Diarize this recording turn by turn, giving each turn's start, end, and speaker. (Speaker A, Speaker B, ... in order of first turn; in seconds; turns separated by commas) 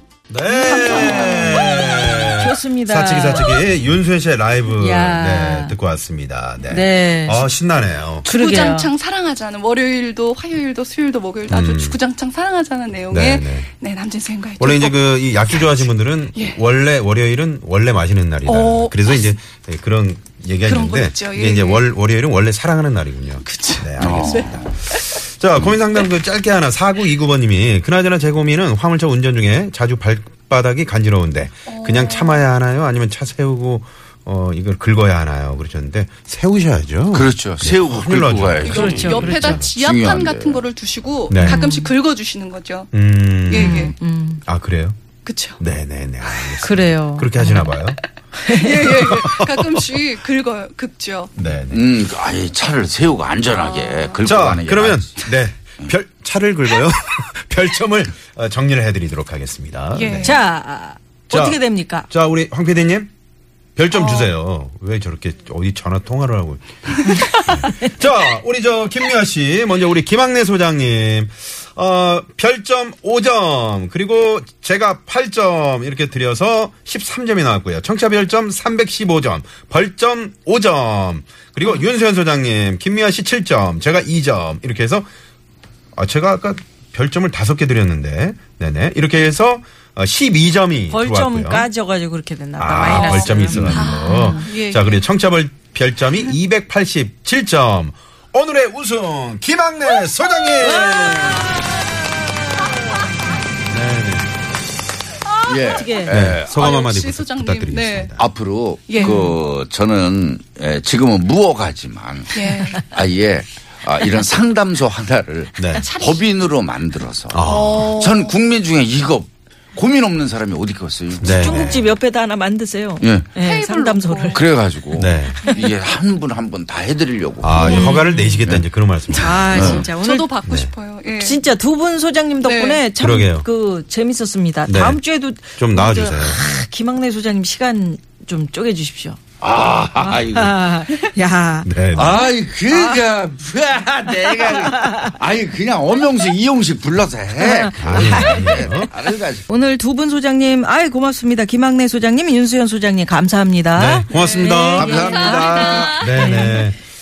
Speaker A: 0.3-8.2, Speaker B: 0.5-1.8, Speaker C: 0.6-3.6, Speaker C: 4.7-5.8, Speaker C: 6.7-7.5, Speaker C: 8.2-8.9, Speaker B: 8.2-16.6, Speaker A: 11.5-12.0, Speaker A: 13.1-13.7, Speaker A: 14.6-39.7, Speaker B: 18.4-19.3, Speaker B: 20.7-21.8, Speaker B: 23.4-25.2, Speaker D: 24.0-24.8, Speaker B: 31.7-32.4, Speaker D: 37.1-40.6, Speaker C: 38.6-39.6, Speaker B: 38.6-42.9, Speaker A: 41.3-41.6, Speaker C: 41.4-41.9, Speaker A: 42.9-43.9, Speaker B: 43.5-43.9, Speaker C: 43.5-44.4, Speaker A: 44.4-45.0, Speaker B: 45.2-45.6, Speaker A: 45.6-48.0, Speaker C: 46.6-47.7, Speaker C: 48.4-49.0, Speaker B: 48.5-51.3, Speaker A: 48.9-50.0, Speaker A: 51.4-51.8, Speaker D: 51.7-55.2, Speaker B: 53.6-54.1, Speaker A: 54.2-60.4, Speaker B: 59.9-60.4, Speaker C: 60.2-62.1, Speaker A: 61.3-63.1, Speaker A: 63.8-85.1, Speaker B: 63.9-64.3, Speaker A: 86.0-91.7, Speaker C: 90.9-94.5, Speaker A: 92.6-101.6, Speaker B: 92.8-95.0, Speaker C: 100.6-101.7, Speaker A: 103.7-104.3, Speaker B: 105.2-108.2, Speaker D: 105.5-106.7, Speaker C: 105.7-106.2, Speaker A: 106.1-108.2, Speaker D: 108.2-121.9, Speaker B: 108.9-109.4, Speaker B: 112.3-112.8, Speaker A: 115.6-115.8, Speaker B: 115.8-116.2, Speaker A: 117.3-117.9, Speaker B: 117.4-118.4, Speaker A: 121.2-121.9, Speaker C: 121.2-124.4, Speaker D: 123.0-123.3, Speaker B: 123.4-124.4, Speaker D: 124.3-127.9, Speaker A: 125.0-125.4, Speaker B: 125.5-125.7, Speaker A: 127.4-129.8, Speaker C: 127.5-128.5, Speaker B: 127.6-128.0, Speaker C: 129.1-130.3, Speaker B: 129.3-131.4, Speaker D: 129.5-129.9, Speaker A: 130.4-130.7, Speaker C: 131.2-139.2, Speaker B: 132.4-132.8, Speaker A: 133.0-133.4, Speaker A: 134.7-135.0, Speaker A: 135.6-136.4, Speaker D: 139.4-140.6, Speaker C: 140.0-143.1, Speaker A: 141.6-142.2, Speaker D: 141.9-149.4, Speaker C: 144.1-145.1, Speaker C: 147.4-156.7, Speaker A: 147.8-148.9, Speaker A: 153.7-156.8, Speaker B: 154.1-156.4, Speaker D: 154.7-155.7